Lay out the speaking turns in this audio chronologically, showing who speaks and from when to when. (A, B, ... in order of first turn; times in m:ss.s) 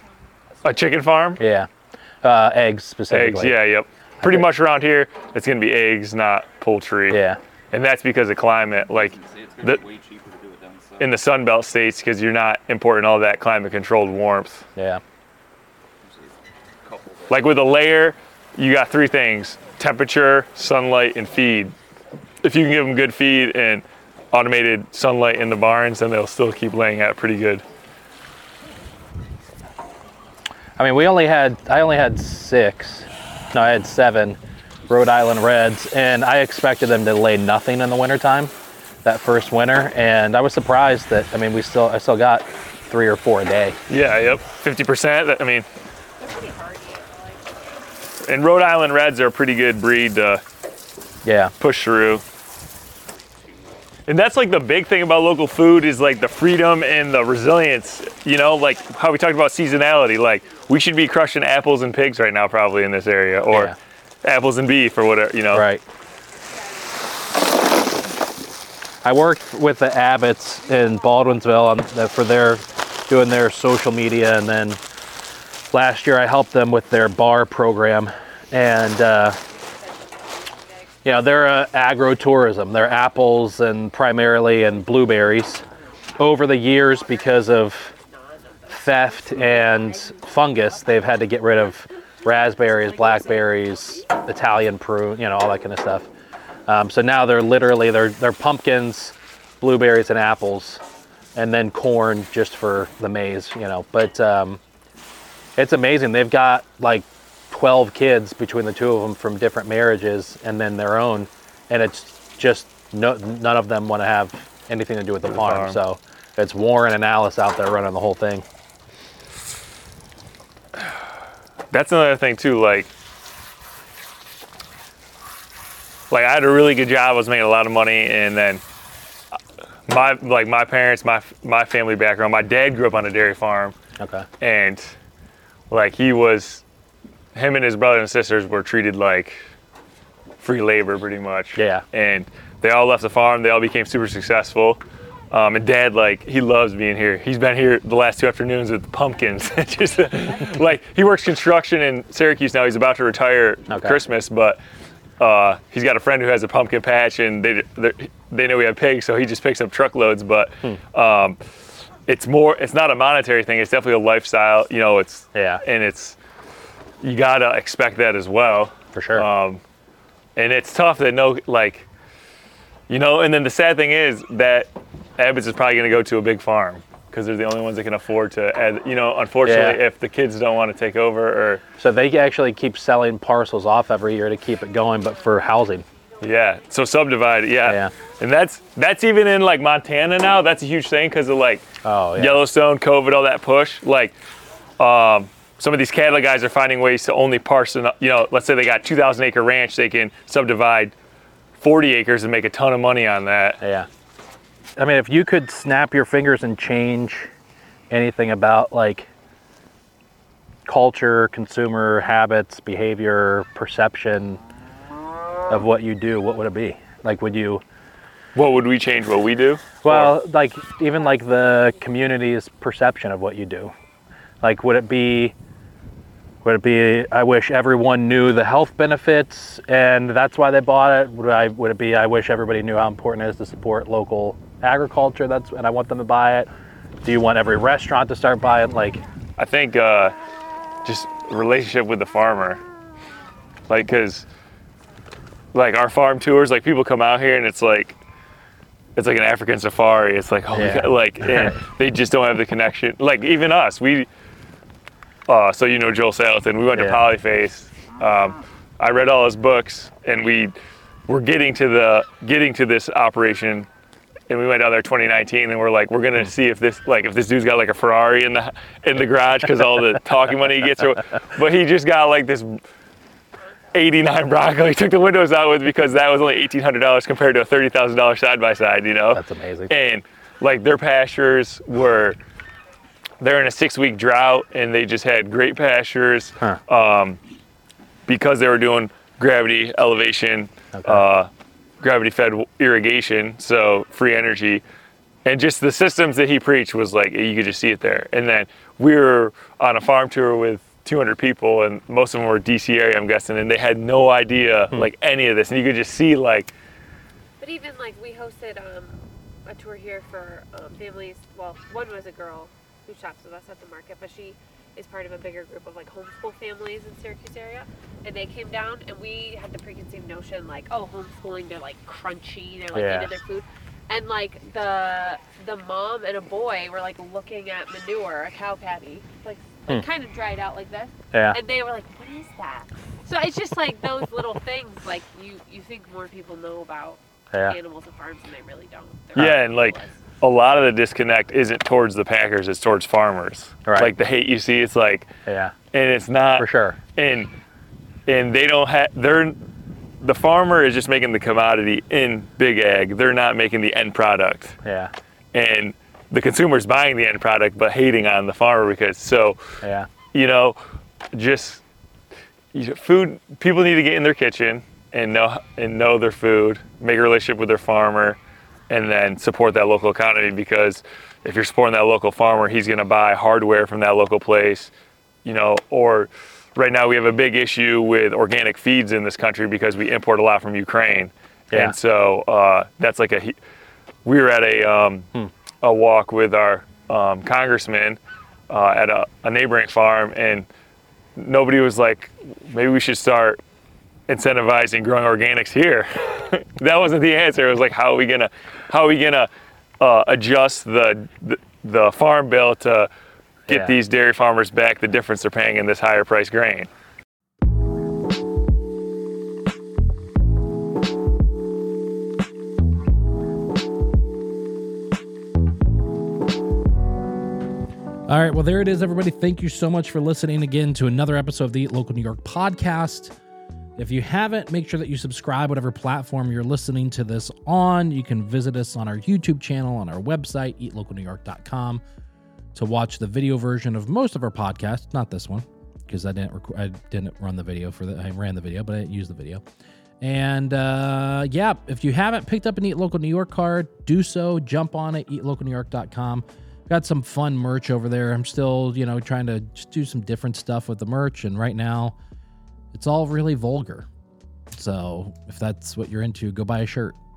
0:00.6-0:01.4 A
0:01.4-0:01.7 B
0:02.2-0:03.6 B
0:03.1-0:07.2 A
0:07.1-0:07.4 B
0:07.7-0:09.8 A
0:08.9-0:11.2 C
0:11.0-0:14.7 A
0:14.8-0:15.0 B
0:16.0-0:17.4 C
0:17.3-0:21.8 A
0:22.4-0:27.6 A
0:30.8-0:38.5 B
0:39.0-0:43.8 B
0:43.9-0:45.7 A
0:46.2-0:47.8 D
0:48.2-0:50.4 A
0:51.2-0:51.5 B
0:51.6-0:52.2 A
0:54.1-1:05.7 A
1:03.5-1:03.8 B
1:05.5-1:05.8 B
1:09.0-1:14.8 B
1:15.7-1:19.4 B
1:19.4-1:21.0 D
1:21.0-1:25.6 B
1:26.2-1:27.9 B
1:28.1-1:30.1 D
1:28.7-1:36.1 B
1:33.4-1:33.6 D
1:36.7-1:40.8 B
1:41.4-1:44.6 B
1:45.6-1:58.5 B
1:55.3-1:55.8 A
2:01.7-2:02.9 A
2:06.1-2:08.6 A
2:09.9-2:13.8 A
2:14.0-2:14.3 B
2:14.4-2:15.0 A
2:15.7-2:16.6 A
2:17.3-2:19.4 A
2:20.4-2:34.6 A
2:21.6-2:21.8 B
2:33.7-2:34.0 B
2:35.2-2:41.4 A
2:42.1-2:46.2 A
2:45.3-2:45.6 B
2:47.0-2:49.6 A
2:49.0-2:49.3 B
2:50.4-2:51.9 A
2:52.9-3:01.6 A
2:59.4-2:59.8 B
3:01.8-3:05.8 B
3:06.2-3:14.2 A
3:07.6-3:07.9 B
3:11.8-3:12.4 B
3:14.8-3:21.0 A
3:21.6-3:23.6 A
3:23.6-3:23.9 B
3:24.8-3:27.3 B
3:27.9-3:29.1 B
3:30.7-3:34.4 B
3:35.5-3:37.6 B
3:38.4-3:40.1 A
3:39.8-3:43.7 B
3:44.4-3:45.4 B
3:46.4-3:56.5 B
3:57.0-3:59.0 B
3:59.4-4:00.2 A
4:00.8-4:02.6 A
4:03.7-4:04.3 A
4:05.5-4:08.0 A
4:09.0-4:14.1 A
4:10.5-4:11.6 B
4:15.3-4:20.6 A
4:16.8-4:17.0 B
4:21.1-4:23.7 A
4:24.3-4:32.6 A
4:33.7-4:42.2 A
4:39.1-4:39.7 B
4:43.2-4:47.2 A
4:48.1-4:54.6 A
4:50.8-4:51.0 B
4:55.2-5:06.5 A
5:07.4-5:40.0 D
5:22.7-5:23.1 B
5:31.1-5:31.4 B
5:37.3-5:37.6 B
5:39.2-5:45.1 A
5:43.7-5:43.9 B
5:45.3-5:45.5 B
5:45.7-5:47.3 A
5:46.4-5:46.8 B
5:48.1-5:49.4 A
5:50.0-5:54.6 A
5:54.6-5:54.9 B
5:55.3-5:59.6 A
5:59.6-5:59.9 B
6:00.1-6:00.6 A
6:01.1-6:01.6 A
6:02.5-6:08.2 A
6:08.7-6:14.7 A
6:15.2-6:23.4 A
6:24.0-6:25.1 A
6:25.6-6:30.5 A
6:31.2-6:33.4 A
6:34.1-6:42.9 A
6:43.5-6:43.8 B
6:43.5-6:46.7 A
6:58.1-7:03.1 E
7:03.8-7:11.8 E
7:12.6-7:19.4 E
7:20.0-7:32.0 E
7:32.7-7:33.9 E
7:34.5-7:37.0 E